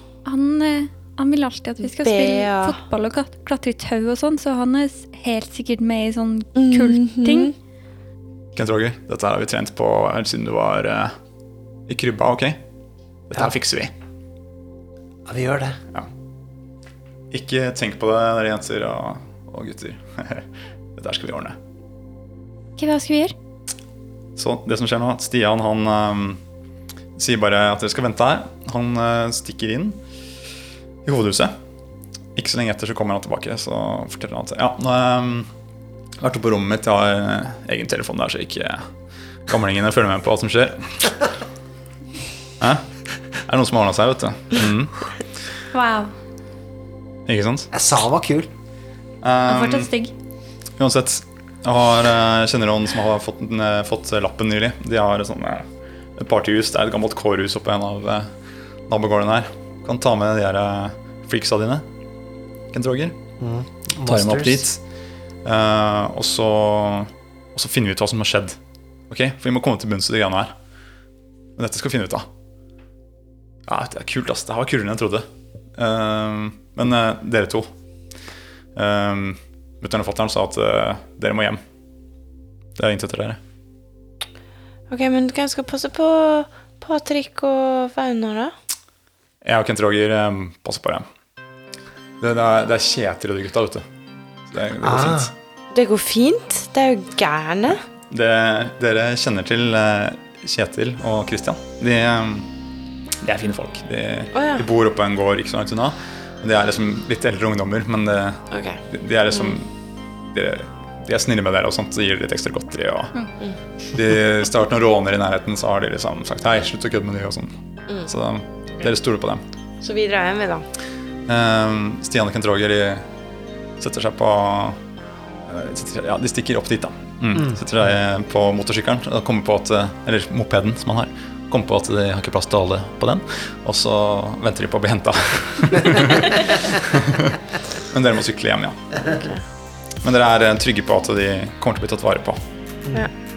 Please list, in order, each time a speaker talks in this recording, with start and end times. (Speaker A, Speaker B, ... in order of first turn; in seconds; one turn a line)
Speaker A: 0.2-7.5
Speaker B: 1.8-2.8
Speaker B: 6.5-7.5
Speaker C: 8.5-11.1
Speaker C: 11.9-12.6
Speaker C: 13.3-13.9
Speaker D: 15.2-15.8
Speaker C: 17.3-21.6
Speaker A: 22.8-23.3
Speaker C: 24.4-26.4
Speaker C: 27.1-30.0
Speaker C: 31.0-31.5
Speaker C: 32.4-35.5
Speaker C: 36.2-38.9
Speaker C: 39.5-41.1
Speaker C: 43.4-45.1
Speaker A: 45.7-46.1
Speaker C: 47.2-47.7
Speaker D: 47.7-48.5
Speaker C: 49.2-49.9
Speaker A: 49.5-50.1
Speaker C: 50.8-58.3
Speaker C: 58.9-61.8
Speaker C: 62.7-63.2
Speaker D: 63.4-64.7
Speaker C: 64.0-64.8
Speaker C: 65.4-68.6
Speaker C: 69.1-70.5
Speaker C: 71.6-72.3
Speaker C: 73.7-77.7
Speaker C: 78.7-81.6
Speaker C: 82.8-83.4
Speaker B: 84.9-88.5
Speaker C: 89.4-91.0
Speaker C: 92.2-93.8
Speaker C: 94.5-95.3
Speaker D: 94.8-95.3
Speaker B: 95.7-97.8
Speaker C: 98.1-102.5
Speaker C: 103.2-109.7
Speaker B: 104.3-104.7
Speaker B: 108.5-109.6
Speaker C: 110.3-113.1
Speaker C: 113.9-117.5
Speaker C: 118.0-119.4
Speaker B: 119.8-120.7
Speaker C: 121.3-123.0
Speaker C: 123.8-124.8
Speaker C: 125.5-139.2
Speaker D: 127.3-127.6
Speaker B: 139.0-139.4
Speaker C: 140.0-142.4